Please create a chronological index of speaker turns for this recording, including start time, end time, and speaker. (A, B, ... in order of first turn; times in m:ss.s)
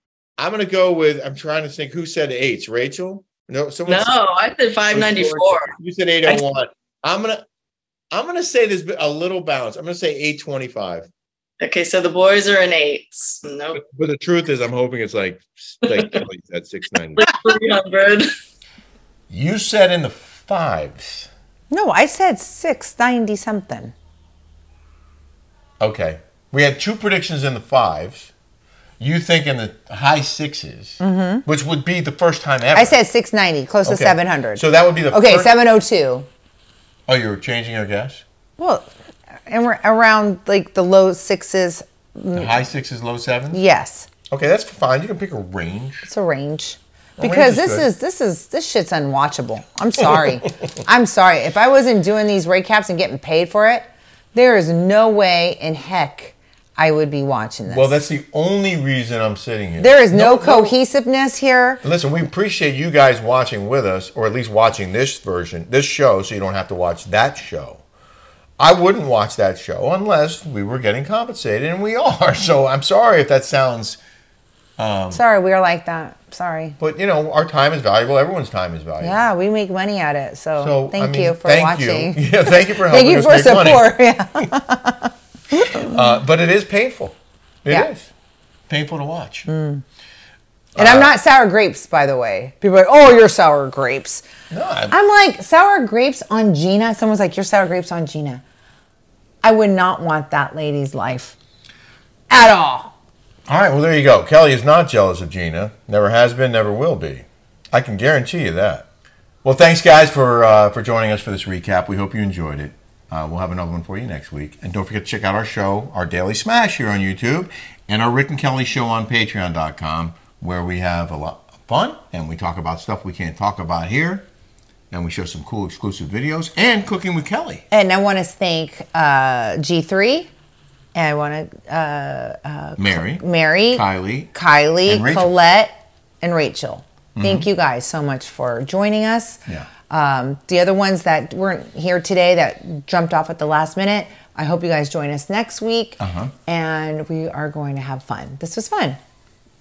0:00.4-0:04.1 A
0:03.9-0:05.7 B
0:04.9-0:07.4 A
0:08.1-0:11.1 A
0:11.6-0:13.8 B
0:13.8-0:17.3 A
0:17.2-0:18.3 B
0:19.3-0:21.3 A
0:21.7-0:23.9 C
0:25.8-0:28.3 A
0:29.0-0:33.0 A
0:31.0-0:31.4 C
0:32.7-0:36.3 C
0:33.8-0:35.6 A
0:37.1-0:38.2 A
0:38.6-0:38.9 C
0:39.5-0:42.6 C
0:42.3-0:43.6 A
0:43.5-0:44.1 C
0:44.3-0:46.1 A
0:46.0-0:57.9 C
0:47.2-0:47.9 A
0:57.7-1:00.8 A
0:59.8-1:01.8 C
1:01.8-1:07.8 A
1:08.6-1:14.0 A
1:14.8-1:15.2 A
1:15.1-1:16.8 C
1:16.8-1:19.2 A
1:19.0-1:26.0 C
1:20.6-1:23.9 A
1:25.7-1:28.1 A
1:28.7-1:29.5 A
1:29.5-1:29.8 C
1:30.8-1:31.1 A
1:30.8-1:34.2 C
1:34.5-1:35.0 A
1:34.9-1:38.4 C
1:39.4-1:41.4 C
1:42.3-1:42.9 C
1:43.5-1:48.9 A
1:49.4-2:04.2 A
2:04.9-2:07.6 A
2:07.7-2:10.3 C
2:10.9-2:29.0 C
2:12.8-2:14.3 A
2:14.8-2:15.3 A
2:17.2-2:17.5 A
2:26.0-2:26.3 A